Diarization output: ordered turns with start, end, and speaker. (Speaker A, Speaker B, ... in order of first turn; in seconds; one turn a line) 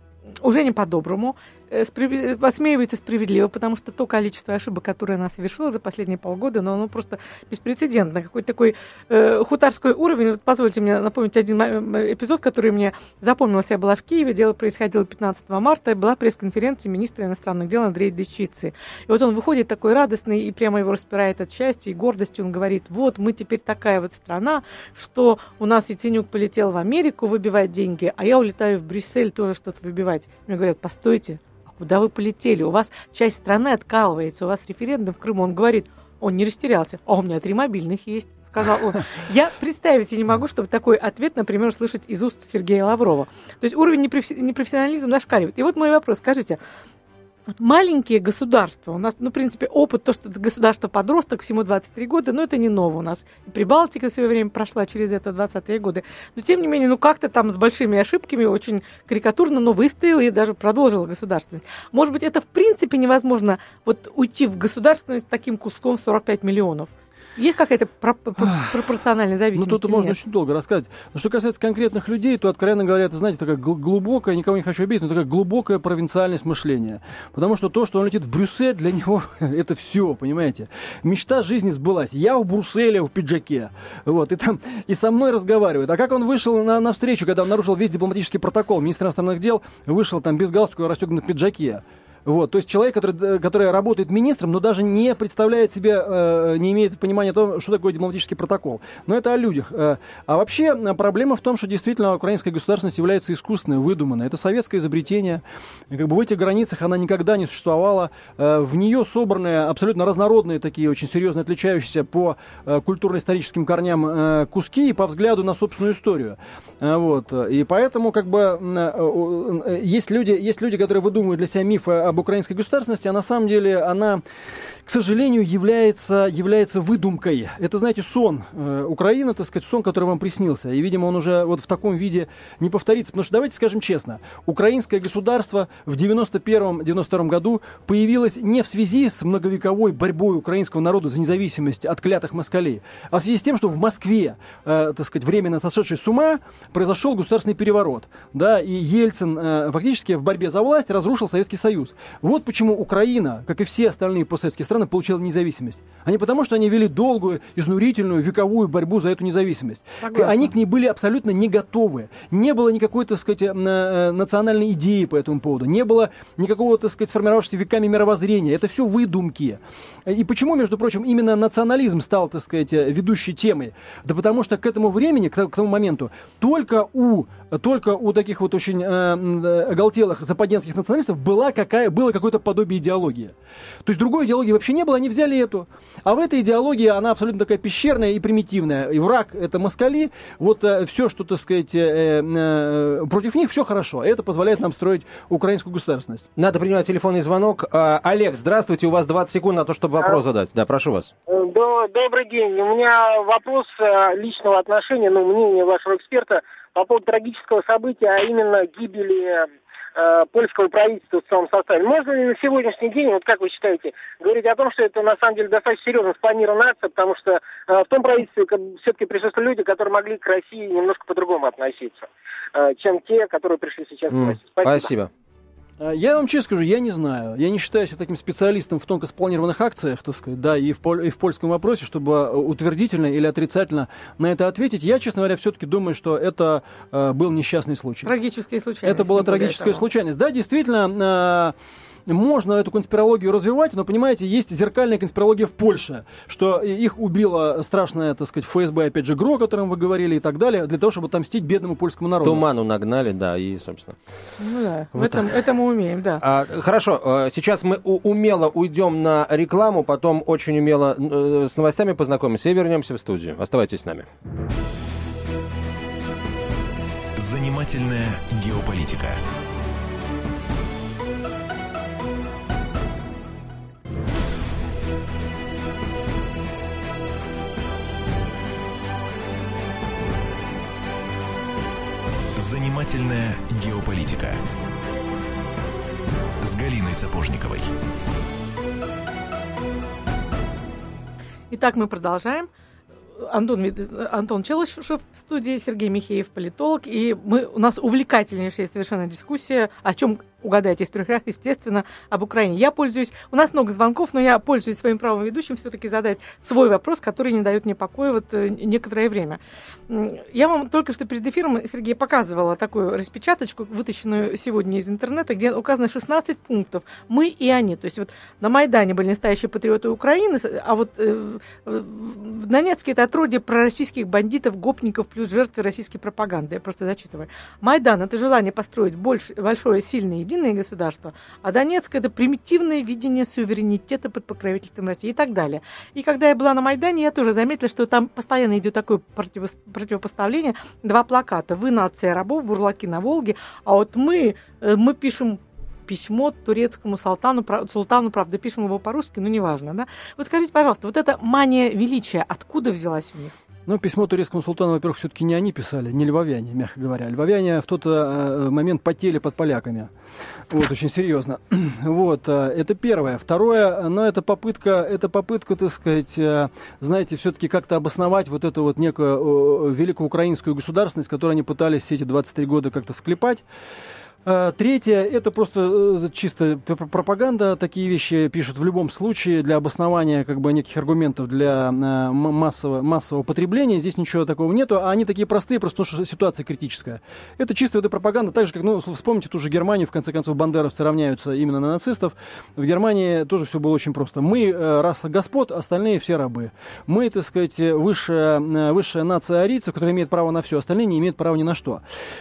Speaker A: 0.4-46.6
Speaker A: 47.5-70.2
Speaker B: 69.5-124.2
Speaker B: 124.8-196.3
Speaker A: 160.0-160.5
Speaker C: 196.4-201.1
Speaker D: 201.3-224.9
Speaker C: 224.1-225.1
Speaker B: 225.8-238.1
Speaker A: 238.0-239.8
Speaker B: 238.8-241.5
Speaker B: 242.1-252.4
Speaker C: 252.2-254.0
Speaker A: 254.4-256.2
Speaker C: 256.2-264.1
Speaker E: 267.1-269.2
Speaker E: 282.4-284.4
Speaker E: 286.4-287.7
Speaker A: 291.5-292.5
Speaker A: 293.2-353.3
Speaker B: 353.7-359.9
Speaker B: 360.5-373.4
Speaker B: 374.2-401.8